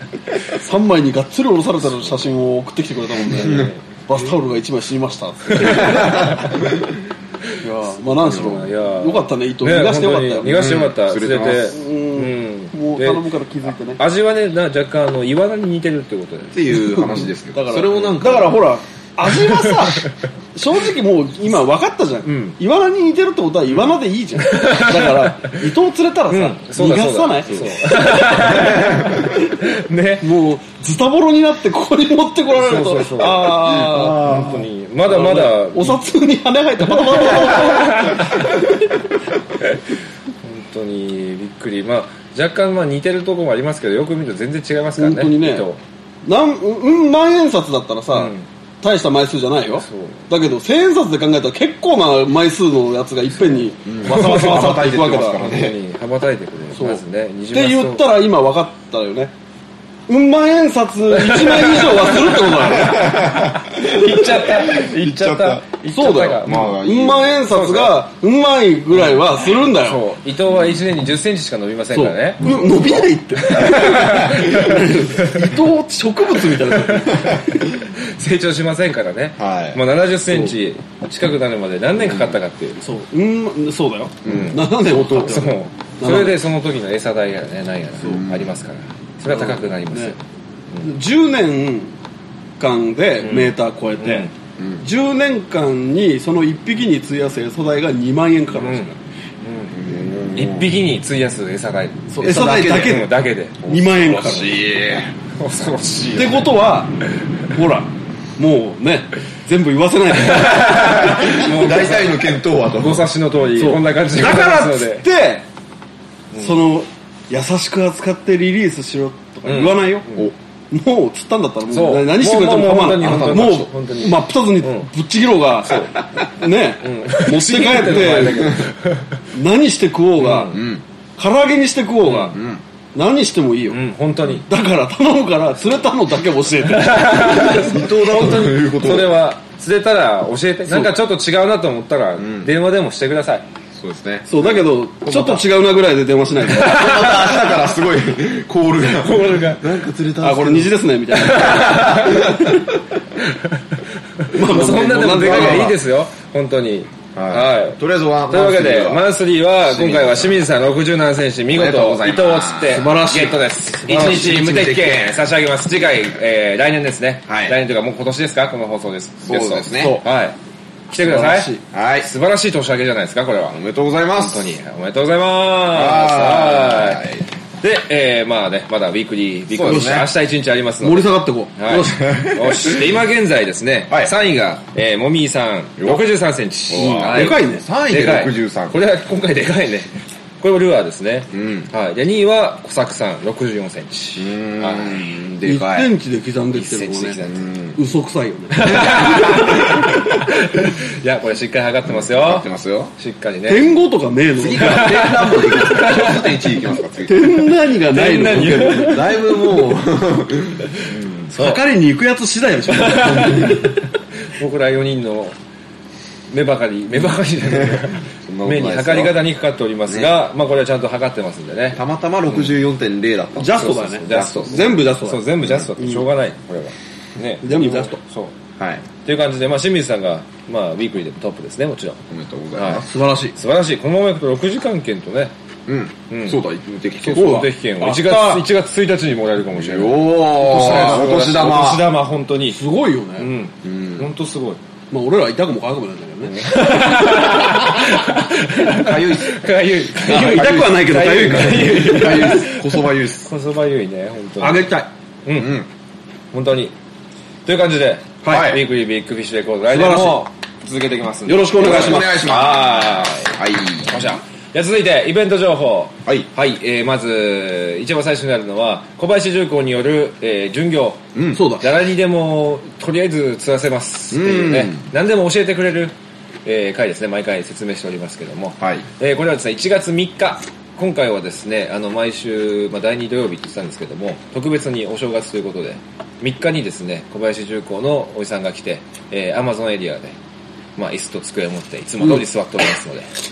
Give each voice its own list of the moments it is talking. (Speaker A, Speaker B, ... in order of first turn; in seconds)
Speaker A: 0.5-6.4, 7.6-10.5, 11.7-14.0, 16.7-28.1, 30.2-38.3, 45.0-45.6, 46.2-55.4, 56.7-59.3, 60.1-63.1, 65.9-70.0, 71.9-77.4, 82.8-86.4, 89.3-90.2, 90.8-92.0, 92.6-94.3, 94.8-99.0, 102.1-103.1, 103.7-104.6, 106.2-106.9, 107.5-110.8, 113.6-115.4, 116.3-120.0, 120.7-128.7, 129.3-130.6, 131.2-132.4, 132.9-133.8, 134.5-137.4, 140.7-140.9, 144.3-147.0, 150.2-152.1, 154.3-155.8, 162.7-164.4, 169.8-170.1, 171.0-171.6, 179.7-180.0, 180.8-182.2, 186.8-187.6, 195.5-197.2, 197.8-198.9, 203.5-205.2, 207.1-209.0, 211.3-213.8, 223.4-225.2, 225.8-226.0, 227.4-228.0, 232.9-233.3, 237.1-238.4, 240.4-241.1, 242.5-243.3, 244.9-246.7, 250.0-252.4, 254.4-254.9, 258.2-258.5, 259.7-260.3, 261.3-262.1, 271.3-271.6
Speaker B: 3.3-3.8, 5.6-6.5, 8.2-13.2, 14.0-16.8, 19.5-20.0, 22.3-22.6, 24.4-25.6, 26.3-30.3, 32.5-36.0, 36.8-38.5, 40.4-45.8, 48.1-48.4, 49.8-50.3, 54.1-58.2, 61.1-66.8, 67.5-68.0, 68.9-75.6, 76.7-82.8, 84.3-90.2, 93.2-94.3, 98.5-98.9, 99.4-103.7, 105.4-106.5, 110.3-115.1, 119.5-120.3, 121.7-124.9, 125.7-126.0, 126.8-129.2, 130.2-130.6, 132.1-132.4, 133.7-134.5, 136.7-143.4, 146.6-147.4, 148.9-149.6, 151.2-152.4, 154.2-170.4, 170.9-173.6, 174.2-177.1, 177.6-195.0, 196.5-197.5, 198.5-202.5, 203.0-203.7, 204.6-206.4, 207.9-209.3, 211.3-211.6, 212.7-213.7, 214.4-215.4, 216.3-222.5, 223.5-228.3, 229.0-232.0, 232.6-235.3, 236.1-236.4, 237.0-242.6, 243.2-244.6, 246.3-254.7, 255.2-255.6, 256.3-256.7, 257.4-275.9, 276.4-290.1, 290.8-293.1
Speaker C: 5.7-6.3, 10.5-11.8, 16.5-18.6, 28.4-29.2, 53.9-55.8, 62.6-65.6, 66.4-67.3, 74.0-74.3, 79.4-79.8, 82.0-82.4, 84.2-84.5, 88.0-88.5, 94.6-94.8, 99.7-100.7, 102.2-103.1, 103.6-105.2, 110.6-113.1, 123.0-123.7, 130.5-130.8, 132.3-132.6, 137.3-139.2, 142.2-142.5, 143.7-144.4, 145.1-145.4, 146.5-150.8, 151.5-152.5, 155.2-155.8, 157.2-159.0, 159.6-160.4, 161.5-162.9, 163.9-165.2, 167.3-167.6, 169.2-170.0, 171.7-172.1, 173.5-174.5, 175.7-177.2, 179.5-180.1, 182.0-182.8, 186.7-188.8, 191.3-191.7, 194.2-195.9, 197.2-197.8, 198.6-200.0, 201.9-202.9, 204.4-207.3, 208.6-211.3, 217.4-219.2, 221.7-224.7, 225.4-225.7, 228.6-228.8, 232.1-232.9, 235.7-237.4, 239.6-241.9, 243.6-244.1, 248.7-249.4, 250.1-253.3, 255.3-255.7, 258.3-258.6, 261.6-264.2, 271.1-271.4, 274.1-274.9, 278.6-278.9